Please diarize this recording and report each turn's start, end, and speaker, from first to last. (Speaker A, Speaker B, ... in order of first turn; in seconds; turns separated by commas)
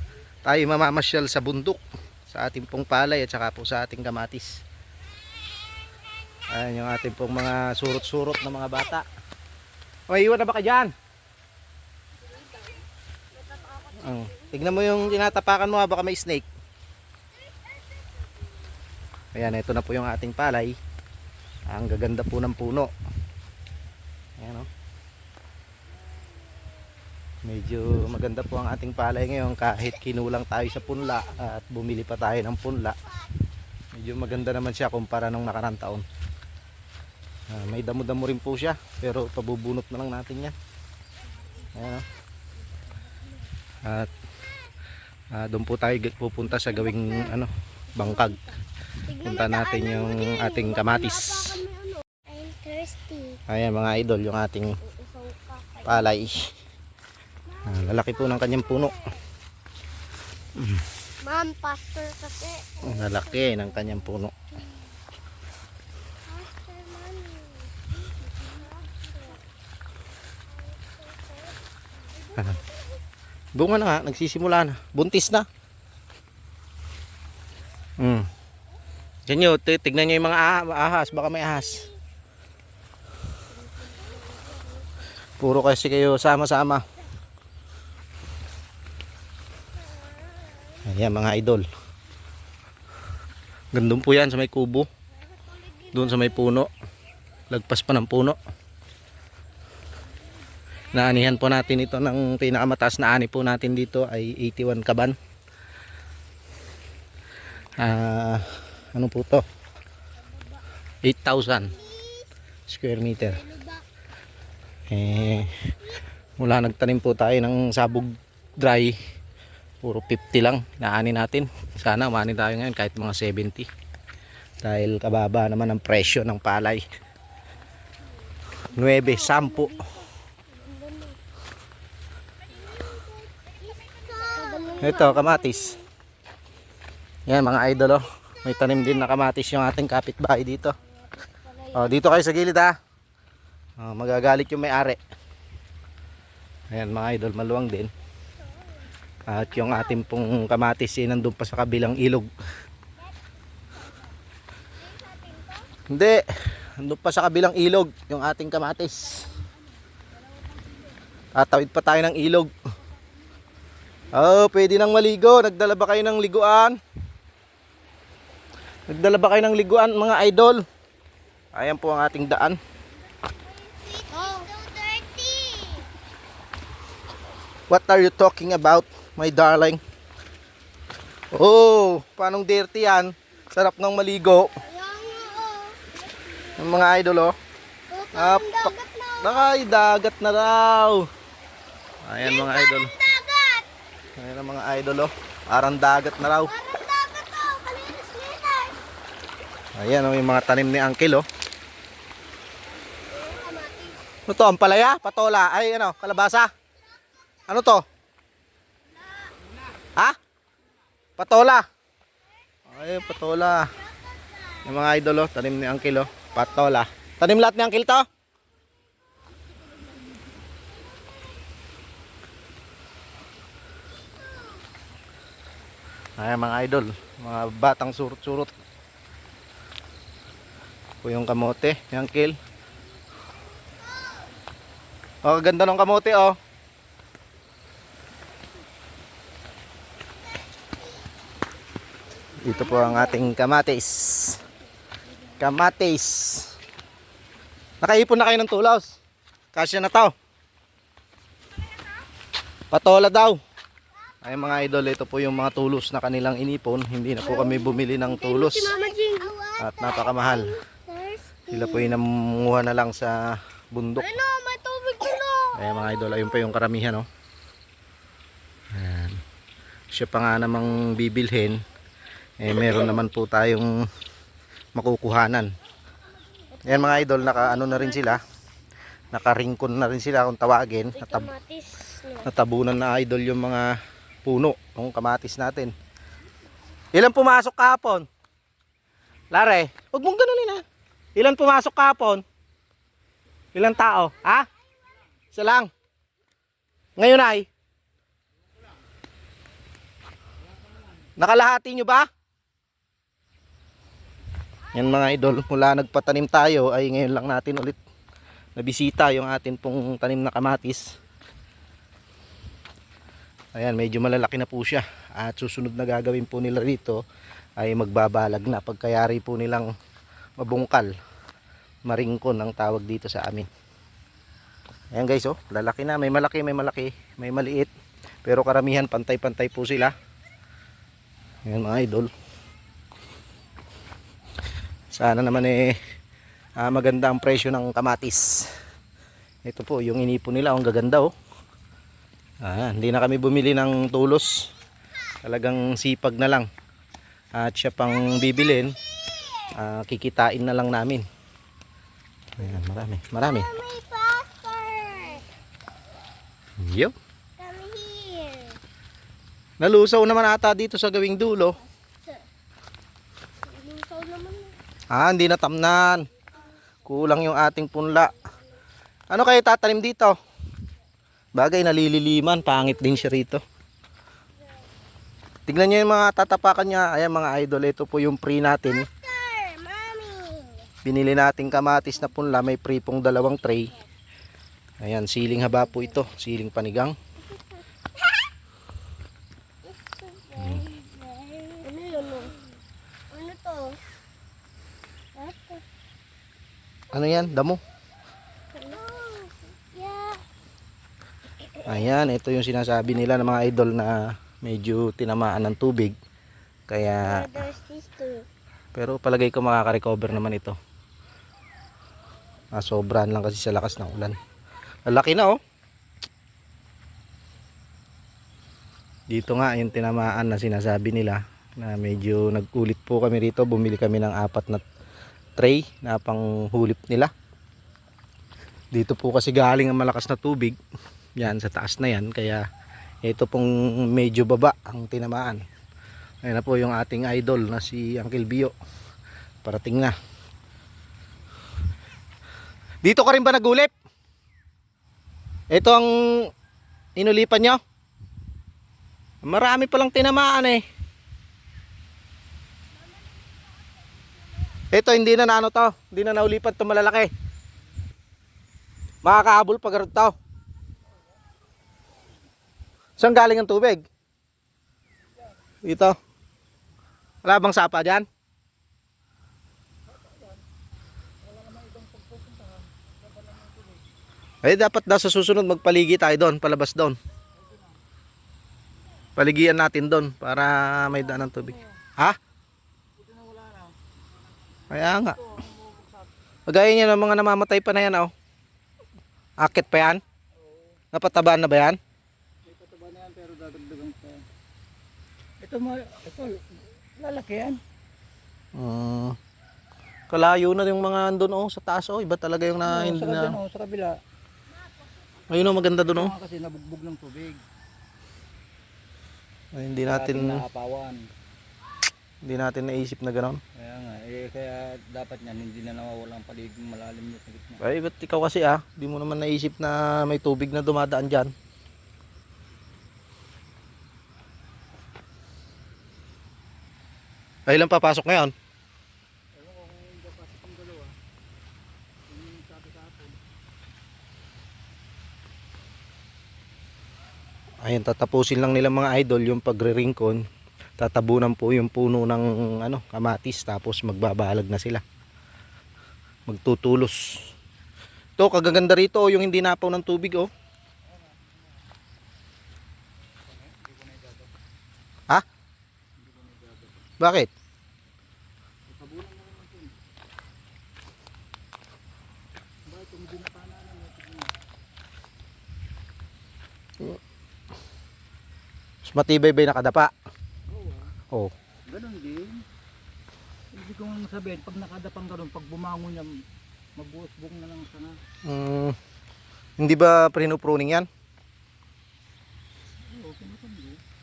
Speaker A: 0.4-4.6, Speaker A: 6.5-9.1, Speaker A: 10.1-10.9, Speaker B: 13.6-13.8, Speaker A: 13.9-16.4, Speaker A: 19.3-20.8, Speaker A: 21.7-22.9, Speaker A: 24.4-24.7, Speaker A: 27.4-33.0, Speaker A: 33.9-36.0, Speaker A: 37.5-40.5, Speaker A: 41.7-42.0, Speaker A: 43.8-44.1, Speaker A: 45.3-48.4, Speaker B: 46.9-47.2, Speaker B: 48.0-53.4, Speaker A: 49.2-51.6, Speaker A: 53.5-54.8, Speaker B: 54.8-56.1, Speaker A: 55.8-56.5, Speaker B: 57.5-58.9, Speaker A: 57.6-59.0, Speaker A: 60.5-60.8, Speaker B: 61.2-64.0, Speaker A: 62.8-64.3, Speaker B: 66.2-69.4, Speaker B: 70.5-71.5, Speaker B: 72.2-73.0, Speaker A: 73.5-75.5, Speaker A: 78.0-78.3, Speaker A: 79.3-81.9, Speaker B: 83.6-84.6, Speaker A: 85.4-86.8, Speaker B: 90.0-90.8, Speaker A: 90.8-91.7, Speaker A: 93.7-94.9, Speaker B: 95.5-95.9, Speaker A: 95.9-96.7, Speaker A: 97.5-98.4, Speaker A: 100.9-105.2, Speaker A: 107.8-109.4, Speaker A: 111.0-111.8, Speaker B: 111.8-112.2, Speaker A: 112.7-113.5, Speaker B: 113.3-113.8, Speaker A: 114.9-115.7, Speaker A: 116.4-119.0, Speaker A: 119.8-123.7, Speaker A: 124.6-126.8, Speaker A: 128.7-129.8, Speaker B: 128.8-131.2, Speaker B: 132.5-135.9, Speaker A: 134.8-135.7, Speaker A: 137.3-140.8, Speaker B: 140.9-142.0, Speaker A: 141.7-142.8, Speaker A: 143.8-145.0, Speaker A: 146.7-147.9, Speaker A: 149.3-152.3, Speaker B: 154.8-155.7, Speaker A: 155.9-159.3, Speaker A: 161.3-162.5, Speaker A: 164.1-166.8, Speaker A: 168.9-170.6, Speaker A: 171.5-172.6, Speaker B: 173.4-175.9, Speaker A: 177.7-179.8, Speaker A: 181.3-184.5, Speaker B: 184.6-186.5, Speaker A: 186.6-187.3, Speaker B: 187.9-189.5, Speaker A: 188.1-191.1, Speaker A: 192.0-192.9, Speaker B: 192.2-193.7, Speaker A: 194.2-196.5, Speaker B: 196.3-198.8, Speaker A: 199.8-201.2, Speaker B: 203.1-204.0, Speaker A: 204.3-206.5, Speaker A: 207.5-207.8, Speaker A: 211.2-211.7, Speaker A: 212.7-213.7, Speaker A: 214.6-218.1, Speaker A: 226.2-228.5, Speaker A: 231.0-232.3, Speaker A: 235.2-236.4, Speaker A: 242.4-244.4, Speaker B: 242.6-243.2, Speaker A: 245.4-246.5, Speaker A: 247.8-248.9, Speaker A: 249.5-250.1, Speaker A: 252.7-253.4, Speaker A: 254.2-258.8, Speaker B: 257.2-262.0, Speaker A: 259.6-260.6, Speaker A: 261.5-264.1, Speaker B: 264.0-266.4, Speaker A: 265.5-267.1, Speaker A: 268.7-269.2, Speaker A: 269.9-271.6, Speaker A: 272.4-273.8, Speaker A: 274.7-275.5, Speaker B: 276.5-278.2, Speaker A: 276.6-278.2, Speaker A: 279.1-281.3, Speaker B: 280.9-282.3, Speaker A: 282.2-285.7, Speaker A: 286.9-288.1, Speaker A: 289.3-290.6, Speaker A: 291.1-292.2, Speaker A: 293.5-294.5, Speaker A: 295.3-295.7, Speaker A: 297.0-297.5, Speaker A: 301.2-302.1, Speaker A: 304.7-307.8, Speaker A: 308.6-310.9, Speaker A: 313.5-317.0, Speaker A: 317.6-319.7, Speaker A: 320.4-320.9, Speaker A: 321.9-323.5, Speaker A: 324.9-327.7, Speaker A: 328.2-329.9, Speaker A: 331.4-332.1, Speaker A: 334.9-335.8, Speaker A: 336.6-338.5, Speaker A: 339.4-341.1, Speaker A: 342.4-344.5, Speaker A: 345.2-346.5, Speaker A: 347.3-348.8, Speaker A: 349.5-351.0, Speaker A: 352.4-353.5, Speaker B: 353.2-355.2, Speaker A: 356.6-356.9, Speaker B: 357.4-358.6, Speaker A: 359.6-361.6, Speaker B: 363.4-364.6, Speaker A: 364.9-366.1, Speaker A: 366.8-368.1, Speaker A: 369.1-370.1, Speaker A: 371.3-373.4, Speaker A: 375.5-378.9, Speaker B: 378.8-380.7, Speaker A: 380.8-383.7, Speaker A: 384.8-386.9, Speaker B: 389.6-392.4, Speaker A: 390.4-390.6, Speaker B: 393.1-393.8, Speaker B: 395.1-395.6, Speaker A: 396.9-397.6, Speaker B: 398.5-400.2, Speaker A: 401.6-405.9, Speaker A: 406.7-407.3, Speaker B: 407.0-408.3, Speaker A: 408.7-410.6, Speaker A: 412.5-414.2, Speaker A: 414.8-415.4, Speaker A: 419.1-424.6, Speaker A: 425.4-427.1, Speaker A: 428.7-430.6, Speaker A: 431.2-432.4, Speaker A: 433.0-435.4, Speaker A: 436.2-438.5, Speaker A: 439.4-439.9, Speaker A: 442.8-443.7, Speaker A: 445.5-446.3, Speaker A: 447.0-447.6, Speaker A: 449.2-450.6, Speaker A: 454.7-457.1, Speaker A: 459.0-460.1, Speaker A: 463.0-463.8, Speaker A: 465.6-466.0, Speaker A: 467.2-468.1, Speaker C: 471.3-472.7, Speaker C: 473.3-473.8, Speaker A: 474.4-477.0, Speaker A: 479.2-482.2, Speaker C: 483.0-483.8, Speaker A: 484.7-485.2, Speaker C: 485.2-486.1, Speaker A: 486.5-488.1, Speaker A: 489.4-490.0, Speaker A: 490.9-491.8, Speaker C: 492.4-494.2, Speaker C: 495.4-497.6, Speaker A: 498.5-499.2, Speaker A: 500.1-503.4, Speaker C: 502.6-504.0, Speaker A: 505.3-506.1, Speaker C: 505.8-507.4, Speaker A: 509.5-510.4, Speaker C: 509.9-511.1, Speaker A: 512.2-513.4, Speaker C: 513.5-517.6, Speaker A: 517.6-521.3, Speaker A: 527.5-528.3, Speaker C: 529.3-531.0, Speaker C: 532.1-533.2, Speaker A: 537.6-540.2, Speaker A: 540.8-544.8, Speaker A: 546.3-547.2, Speaker A: 548.2-550.3, Speaker C: 553.4-554.2, Speaker C: 556.0-556.8, Speaker A: 557.0-557.3, Speaker C: 558.7-559.7, Speaker C: 562.6-564.3, Speaker A: 568.8-569.9, Speaker C: 570.5-570.9, Speaker C: 571.7-572.4, Speaker C: 573.5-576.2, Speaker C: 576.7-578.0, Speaker A: 578.2-578.8, Speaker A: 579.6-580.9, Speaker C: 582.9-583.8